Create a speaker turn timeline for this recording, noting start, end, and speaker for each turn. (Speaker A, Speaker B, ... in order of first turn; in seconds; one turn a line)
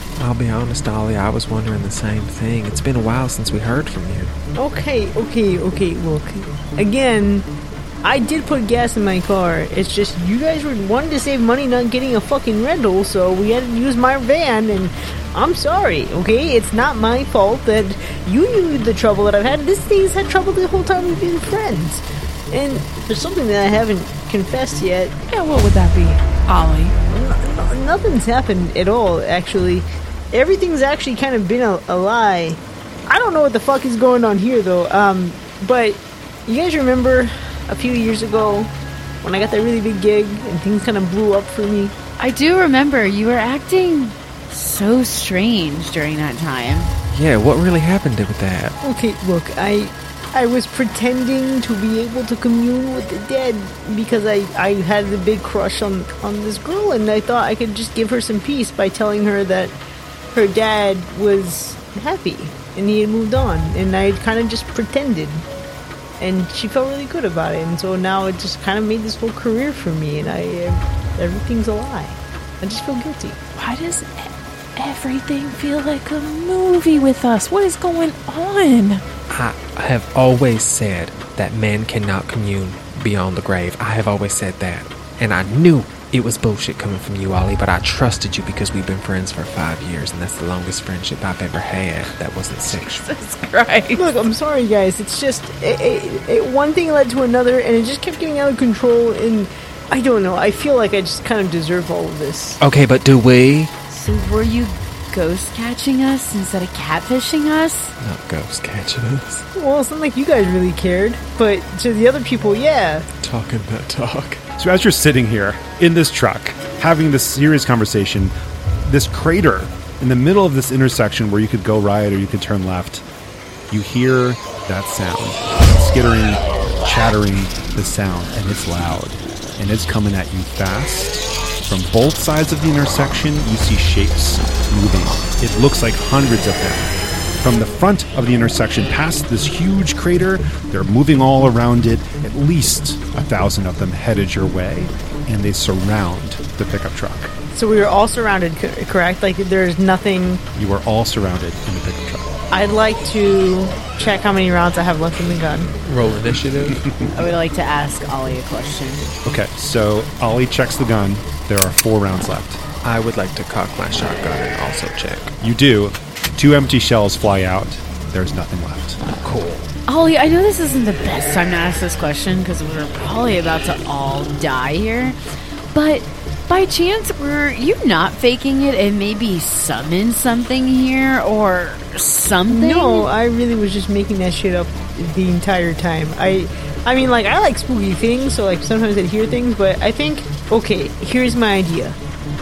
Speaker A: 0.2-4.3
Speaker B: 4.5-7.5
Speaker B: 8.0-25.1
Speaker C: 25.3-26.9
Speaker B: 27.1-41.9
Speaker D: 42.2-46.9
Speaker A: 47.1-48.8
Speaker B: 48.8-59.7
Speaker B: 60.3-65.4
Speaker B: 66.2-73.4
Speaker C: 73.5-79.0
Speaker A: 79.3-93.0
Speaker C: 92.7-94.1
Speaker B: 93.9-102.6
Speaker A: 102.6-103.7
Speaker D: 103.9-107.9
Speaker A: 108.0-109.5
Speaker B: 109.5-113.1
Speaker A: 113.2-114.4
Speaker E: 114.6-118.3
Speaker E: 118.8-123.0
Speaker E: 123.7-147.3
Speaker B: 147.5-150.4
Speaker E: 150.5-152.3
Speaker B: 152.5-155.7
Speaker A: 155.8-156.8
Speaker D: 157.1-159.1
Speaker E: 159.2-162.6
Speaker A: 162.8-165.3
Speaker E: 165.4-169.0
Speaker A: 169.1-169.7
Speaker D: 169.9-175.2
Speaker D: 175.7-183.1
Speaker B: 182.5-192.0